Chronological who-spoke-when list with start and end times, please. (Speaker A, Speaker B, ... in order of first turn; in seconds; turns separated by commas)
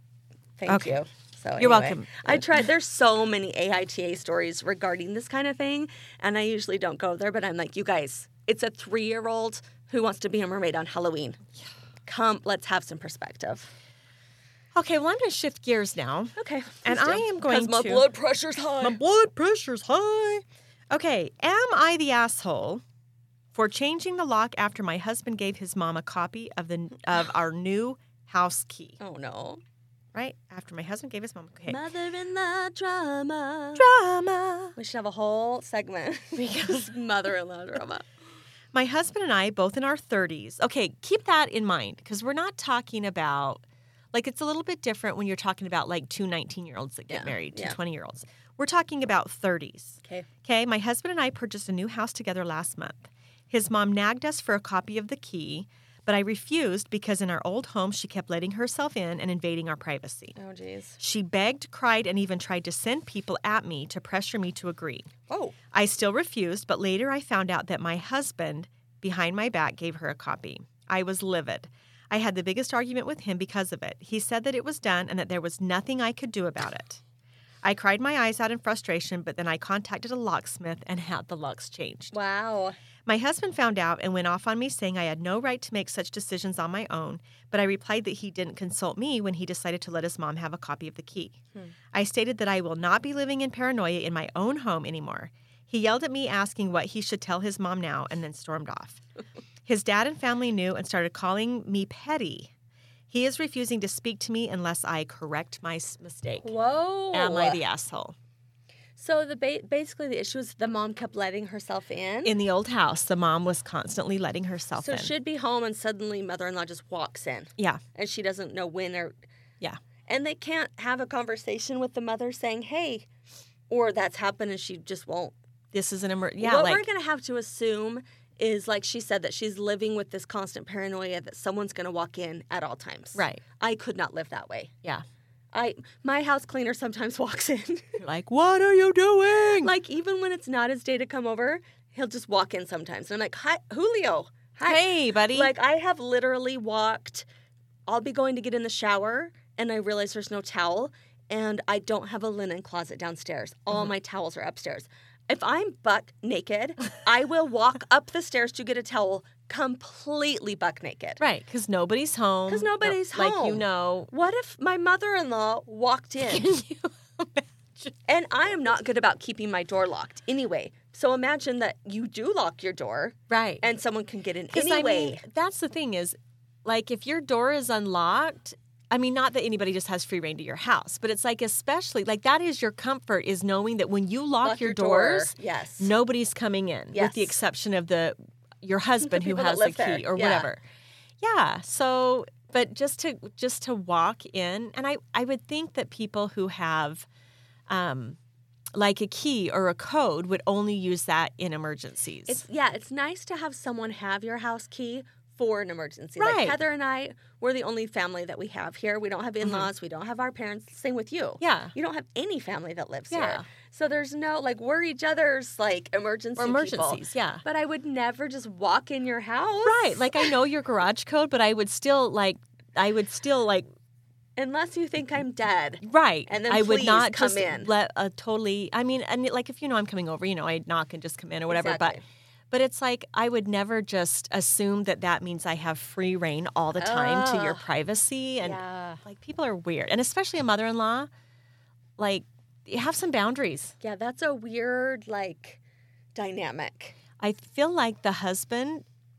Speaker A: 0.6-11.4, Speaker B: 0.7-0.9, Speaker B: 1.6-2.6, Speaker A: 12.1-13.7, Speaker B: 14.7-18.1, Speaker A: 16.4-19.0, Speaker B: 18.8-22.8, Speaker B: 23.5-29.0, Speaker A: 29.0-29.6, Speaker B: 30.1-31.8, Speaker A: 31.7-33.9, Speaker B: 33.8-34.7, Speaker A: 34.8-38.0, Speaker B: 36.4-36.8, Speaker B: 38.7-60.3, Speaker A: 47.1-47.8, Speaker A: 60.3-61.0, Speaker B: 61.0-65.1, Speaker A: 65.3-65.5, Speaker B: 65.7-77.0, Speaker B: 77.6-82.1, Speaker A: 82.1-82.8, Speaker B: 83.0-99.0, Speaker B: 99.7-102.5, Speaker B: 103.1-106.5, Speaker A: 106.4-107.6, Speaker B: 107.1-108.2, Speaker A: 109.0-112.3, Speaker B: 112.2-115.1, Speaker A: 114.8-119.1, Speaker A: 120.1-123.0, Speaker A: 123.7-125.3, Speaker B: 125.7-126.9, Speaker A: 126.4-134.7, Speaker B: 133.1-133.4, Speaker A: 135.5-138.0, Speaker B: 138.0-139.7, Speaker A: 139.6-147.3, Speaker B: 144.6-145.5, Speaker A: 147.9-161.2, Speaker B: 161.2-164.1, Speaker A: 162.5-166.4, Speaker B: 166.2-167.9, Speaker A: 168.1-175.2, Speaker B: 173.3-173.6, Speaker B: 174.5-190.6, Speaker A: 184.4-185.9, Speaker A: 186.9-187.3, Speaker A: 189.1-190.5, Speaker B: 191.2-197.1, Speaker B: 197.7-198.2, Speaker B: 198.7-202.4, Speaker A: 202.3-220.3, Speaker B: 206.2-206.6, Speaker B: 209.4-209.7, Speaker B: 211.4-211.7, Speaker B: 213.1-213.4, Speaker B: 216.4-217.4, Speaker B: 219.6-223.6, Speaker A: 224.4-227.7, Speaker B: 225.8-232.0, Speaker A: 231.5-232.0, Speaker B: 232.5-241.1, Speaker A: 236.7-237.6, Speaker A: 238.4-239.0, Speaker B: 242.0-243.7, Speaker A: 243.8-245.6, Speaker A: 246.1-246.9, Speaker B: 247.2-248.8